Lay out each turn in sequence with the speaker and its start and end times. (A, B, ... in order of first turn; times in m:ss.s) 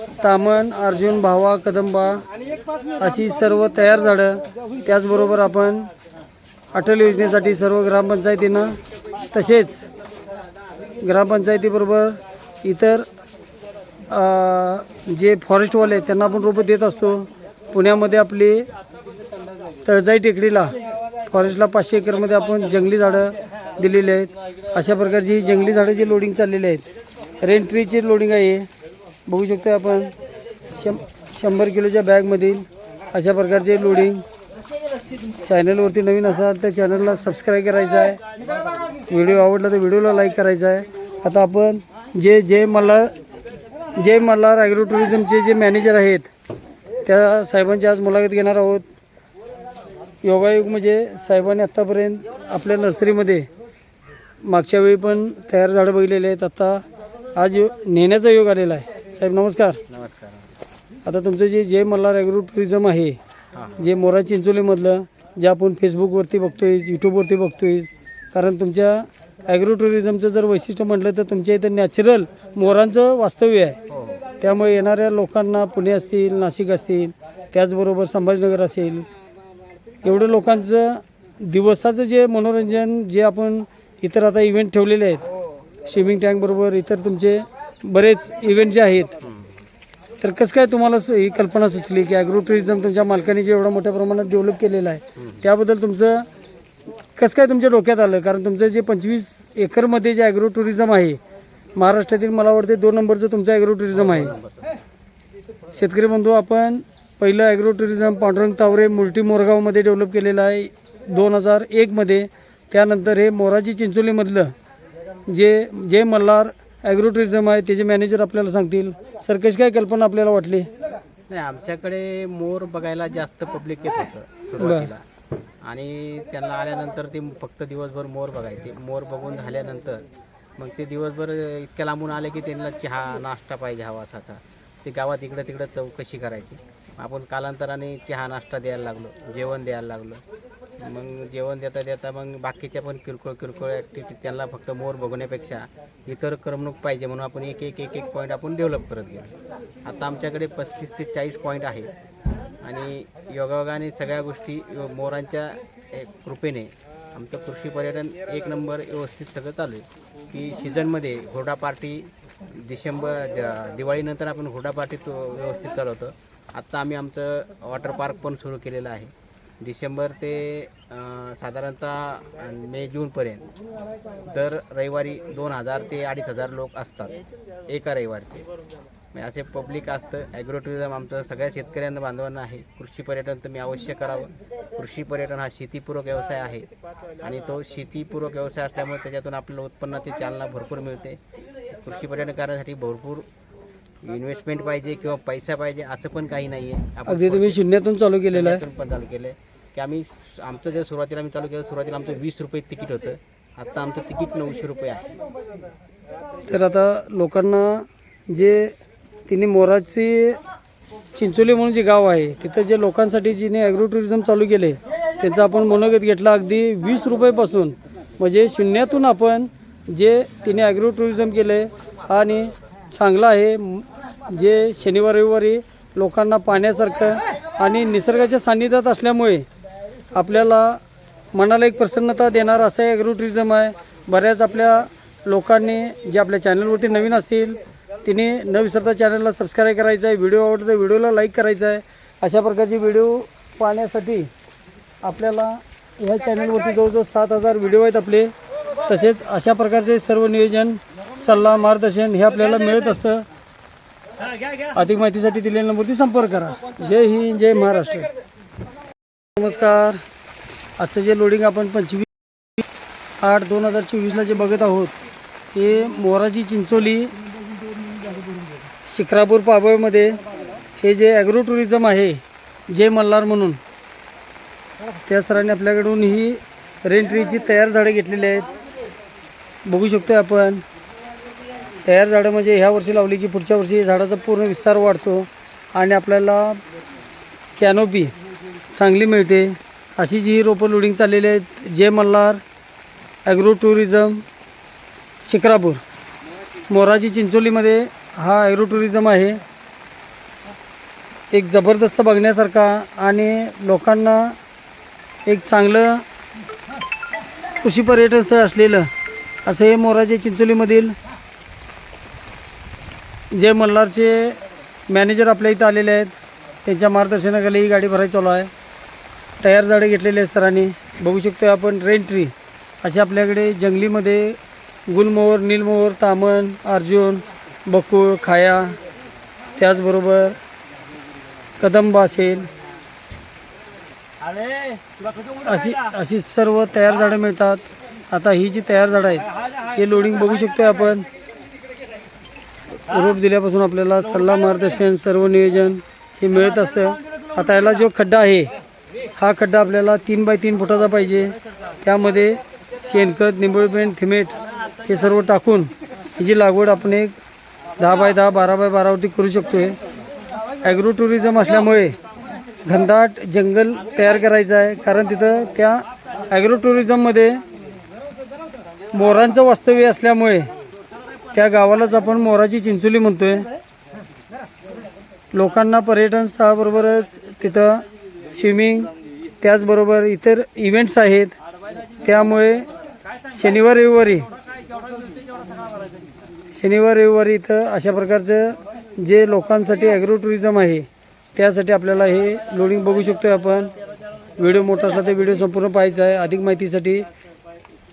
0:00.2-0:02.2 A
0:03.0-0:05.9 A
0:06.7-0:08.8 A
0:09.3-0:09.9 A
0:11.0-0:13.1 A
0:14.1-0:18.7 A
0:19.8-0:20.7 A
0:21.3-0:26.9 A
0:27.4-0:28.7 A
0:29.3-0:30.1 A
0:30.8-0:34.2 A
0:35.4-0:38.2 A
0:39.1-0:43.1 A
0:44.0-0:46.3 A
0:47.0-0:48.8 A
0:50.2-0:53.5 A
0:54.4-0:56.8 A
0:57.3-0:59.8 A
0:59.9-1:00.5 B
1:01.0-1:03.2 A
1:03.5-1:03.8 B
1:03.8-1:13.8 A
1:13.9-1:14.3 B
1:14.4-1:19.1 A
1:20.0-1:25.2 A
1:25.8-1:29.2 A
1:29.2-1:29.6 B
1:30.2-1:36.2 A
1:35.2-1:35.4 B
1:37.1-1:41.2 A
1:41.7-1:44.3 A
1:43.9-1:44.7 B
1:45.7-1:54.5 A
1:55.3-2:00.7 A
2:01.3-2:05.0 B
2:04.6-2:04.9 A
2:05.6-2:10.0 B
2:10.6-2:20.2 B
2:20.8-2:31.9 B
2:32.6-2:53.4 B
2:54.2-2:58.5 B
2:59.1-3:06.7 B
3:07.2-3:13.2 B
3:14.0-3:17.6 B
3:17.1-3:18.6 A
3:18.3-3:25.1 B
3:26.5-3:28.8 A
3:29.3-3:30.4 A
3:31.1-3:49.4 A
3:50.1-3:50.8 A
3:51.3-4:04.3 A
4:05.0-4:08.3 A
4:08.9-4:13.2 A
4:14.7-4:18.1 A
4:19.4-4:20.0 A
4:20.8-4:22.1 A
4:23.2-4:24.9 A
4:25.5-4:27.1 A
4:28.9-4:30.2 A
4:30.8-4:33.6 A
4:35.0-4:38.5 A
4:39.6-4:40.6 A
4:41.8-4:46.6 A
4:47.6-4:48.1 A
4:48.7-4:52.4 A
4:53.2-4:54.2 A
4:55.2-4:55.8 A
4:56.7-4:59.4 A
5:01.3-5:04.4 A
5:05.2-5:06.0 A
5:07.6-5:08.9 A
5:09.4-5:10.9 A
5:13.3-5:16.1 A
5:16.6-5:18.5 A
5:19.4-5:28.7 A
5:29.6-5:30.4 A
5:31.6-5:32.5 A
5:35.3-5:41.0 A
5:42.9-5:48.5 A
5:49.1-5:57.1 A
5:57.8-5:59.8 A
6:00.6-6:02.0 A
6:02.6-6:07.4 A
6:08.9-6:10.5 A
6:11.3-6:13.5 A
6:15.3-6:17.8 A
6:18.3-6:21.3 A
6:22.0-6:22.6 A
6:23.3-6:24.3 A
6:26.5-6:33.7 A
6:34.4-6:37.1 A